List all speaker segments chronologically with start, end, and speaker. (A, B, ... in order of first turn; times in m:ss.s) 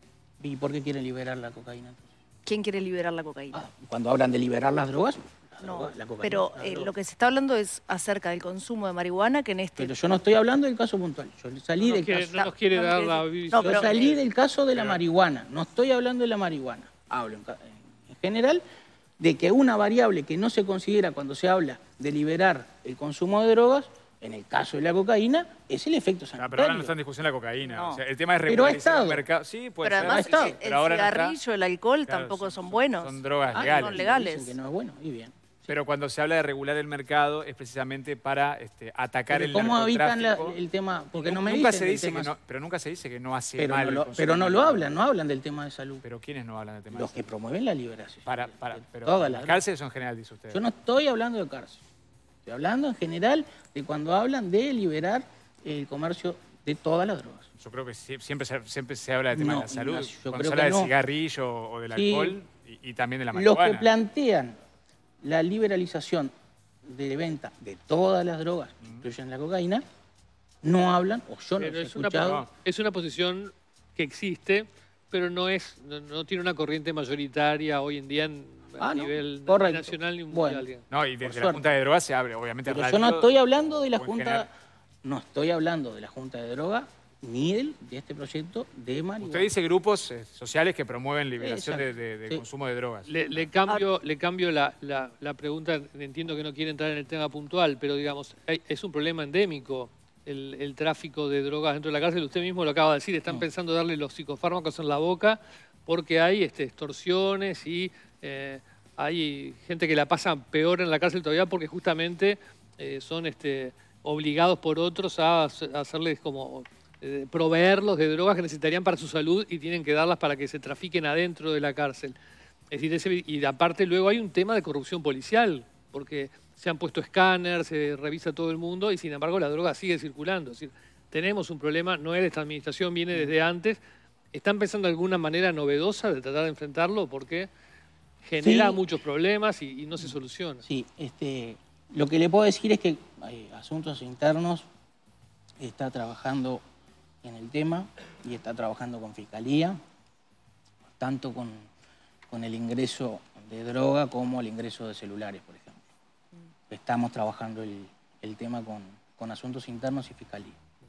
0:00.4-0:02.1 A
0:02.4-0:03.6 B
0:03.5-0:06.9 A
0:05.6-0:09.9 B
0:09.8-0:12.4 A
0:11.8-0:14.2 C
0:12.3-0:14.2 B
0:13.6-0:18.6 A
0:19.2-0:26.9 A
0:26.4-0:31.4 D
0:27.6-0:28.0 B
0:28.5-0:29.2 A
0:29.8-0:34.6 B
0:30.0-0:30.6 A
0:32.1-0:34.0 D
0:33.5-0:35.7 A
0:35.7-0:40.6 D
0:39.3-0:42.3 A
0:41.1-0:44.9 D
0:43.6-0:46.0 A
0:46.0-0:47.3 D
0:46.9-0:49.6 A
0:48.2-0:50.6 D
0:50.5-0:51.8 A
0:52.4-0:57.5 A
0:57.6-1:03.9 D
0:59.3-1:00.9 A
1:01.9-1:02.3 A
1:03.3-1:04.5 A
1:05.2-1:06.3 A
1:06.8-1:09.8 A
1:10.6-1:12.4 A
1:11.6-1:20.8 C
1:12.1-1:12.5 D
1:18.8-1:20.6 A
1:20.9-1:23.3 D
1:21.2-1:21.6 A
1:22.7-1:24.5 A
1:23.9-1:24.4 D
1:25.0-1:29.5 A
1:29.2-1:33.1 D
1:31.4-1:32.4 A
1:33.1-2:02.1 C
2:02.7-2:13.8 C
2:14.3-2:17.5 C
2:18.2-2:20.6 C
2:18.4-2:18.8 A
2:20.6-2:24.6 A
2:25.6-2:26.6 A
2:27.2-2:29.8 A
2:31.0-2:31.7 A
2:32.3-2:35.8 A
2:36.7-2:40.6 A